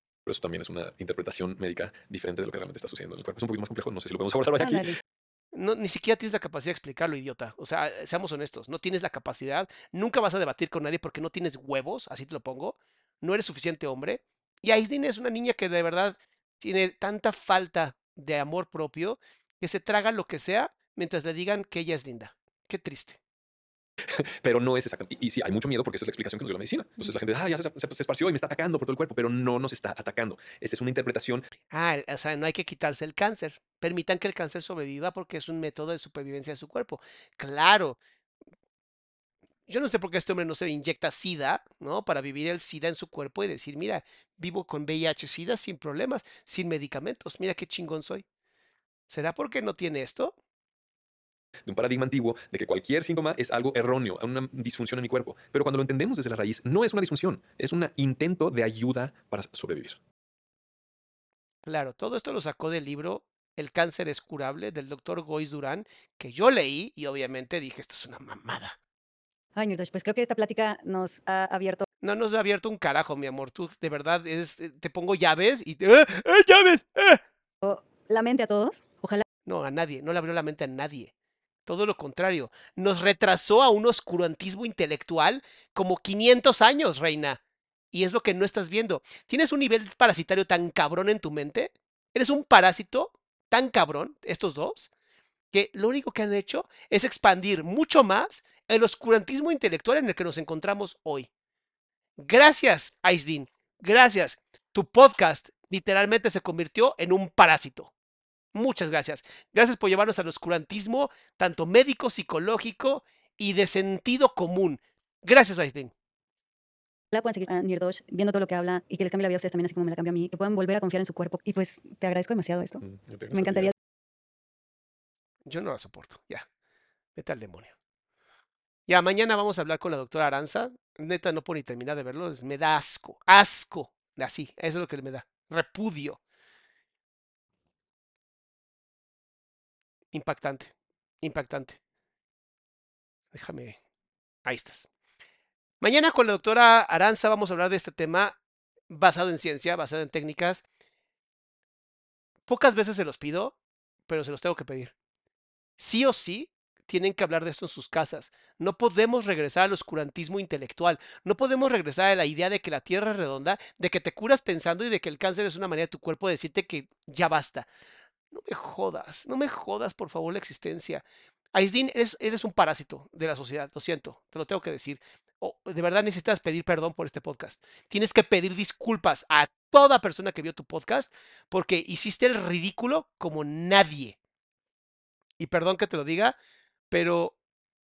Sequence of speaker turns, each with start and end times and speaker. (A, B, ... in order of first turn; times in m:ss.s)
0:00.3-0:04.9 A
0:04.6-0:05.0 B
0:05.5-0:23.2 C
0:24.1-0:31.5 A
0:31.7-0:38.0 C
0:39.7-0:48.2 C
0:49.1-0:50.3 C
0:51.6-1:00.0 A
1:01.6-1:08.8 C
1:09.6-1:11.8 B
1:12.0-1:17.2 C
1:17.6-1:19.2 B
1:19.4-1:21.1 C
1:21.7-1:27.4 C
1:27.9-1:34.9 C
1:35.5-1:41.3 C
1:42.2-1:47.9 C
1:48.5-1:55.9 C
1:57.1-2:02.8 B
2:02.8-2:03.7 A
2:03.3-2:03.7 B
2:05.4-2:06.4 C
2:07.2-2:07.7 C
2:08.9-2:16.2 C
2:20.1-2:21.8 C
2:23.3-2:23.8 C
2:24.4-2:24.9 C
2:25.8-2:28.4 C
2:28.9-2:30.6 C
2:32.5-2:33.5 C
2:34.1-2:34.9 C
2:35.8-2:47.7 C
2:48.3-3:04.2 C
3:05.4-3:06.4 C
3:06.9-3:07.3 C